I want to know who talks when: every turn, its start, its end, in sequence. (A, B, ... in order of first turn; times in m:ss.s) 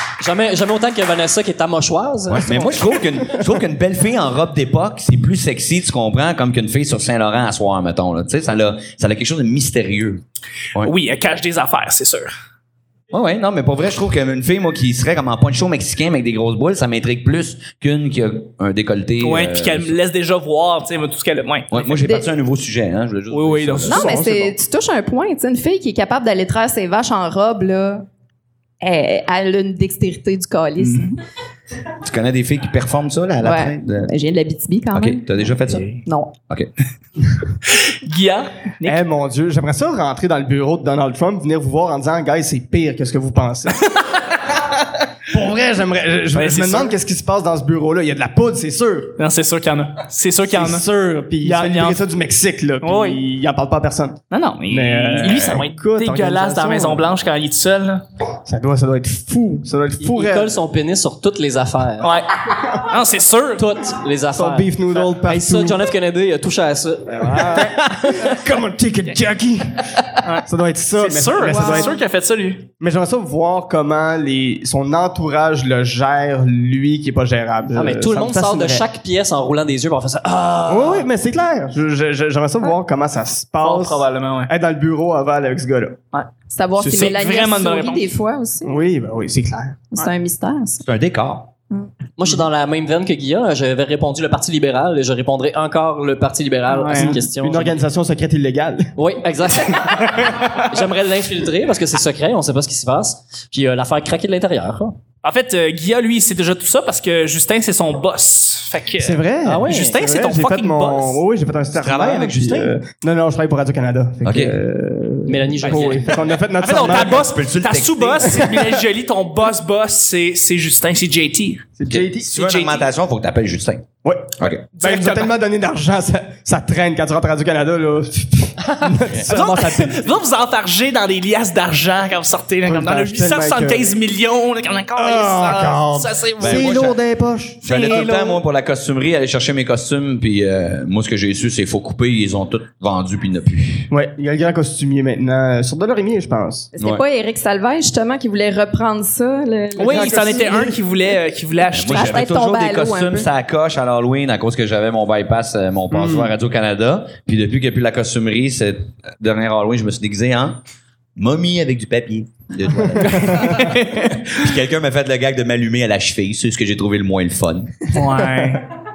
0:00.2-0:02.7 A
0:02.3-0:10.2 B
0:02.5-0:03.3 C
0:10.8-0:12.3 D
0:13.1-0:20.0 B
0:19.2-0:21.7 D
0:21.7-0:24.1 B
0:22.0-0:22.2 E
0:23.3-0:24.2 D
0:23.8-0:28.1 E
0:24.0-0:24.5 C
0:28.8-0:31.2 E
0:30.8-0:31.1 D
0:32.0-0:34.1 B
0:33.4-0:36.3 E
0:34.9-0:36.0 B
0:35.7-0:36.0 D
0:37.6-0:39.0 D
0:38.8-0:44.0 C
0:45.3-0:49.2 C
0:46.3-0:46.9 D
0:49.2-0:50.8 D
0:50.5-0:57.0 C
0:51.4-0:52.0 D
0:52.8-0:53.2 D
0:54.3-0:58.0 D
0:58.4-1:00.5 C
1:00.0-1:02.1 A
1:02.0-1:03.8 D
1:03.6-1:07.9 A
1:04.3-1:05.9 C
1:07.1-1:11.9 C
1:10.2-1:10.4 D
1:11.0-1:12.7 D
1:11.4-1:12.0 E
1:12.8-1:18.8 C
1:17.7-1:21.1 A
1:20.6-1:26.0 C
1:23.6-1:24.5 D
1:26.1-1:28.1 D
1:26.5-1:28.7 E
1:28.6-1:29.9 C
1:29.9-1:30.8 E
1:30.8-1:31.5 B
1:32.2-1:37.8 A
1:36.7-1:37.1 D
1:36.9-1:38.9 C
1:39.0-1:45.0 A
1:39.7-1:40.7 C
1:45.2-1:51.2 D
1:49.0-1:57.2 C
1:49.4-1:50.0 A
1:51.8-1:52.7 B
1:54.2-1:54.5 B
1:55.2-1:56.2 A
1:55.6-2:01.7 D
1:56.9-1:58.5 B
2:01.8-2:02.3 C
2:01.9-2:03.9 B
2:02.3-2:02.9 D
2:04.0-2:10.1 C
2:04.8-2:05.3 D
2:09.3-2:16.9 D
2:12.6-2:13.9 C
2:15.0-2:17.6 C
2:16.4-2:17.0 B
2:17.6-2:23.9 B
2:17.6-2:18.4 D
2:23.9-2:26.7 C
2:26.7-2:30.7 E
2:26.8-2:27.0 B
2:29.8-2:32.3 D
2:29.8-2:30.8 C
2:31.7-2:40.6 B
2:31.9-2:33.3 E
2:35.9-2:36.3 C
2:41.2-2:47.9 B
2:43.0-2:44.4 D
2:43.1-2:43.6 C
2:47.9-2:48.6 D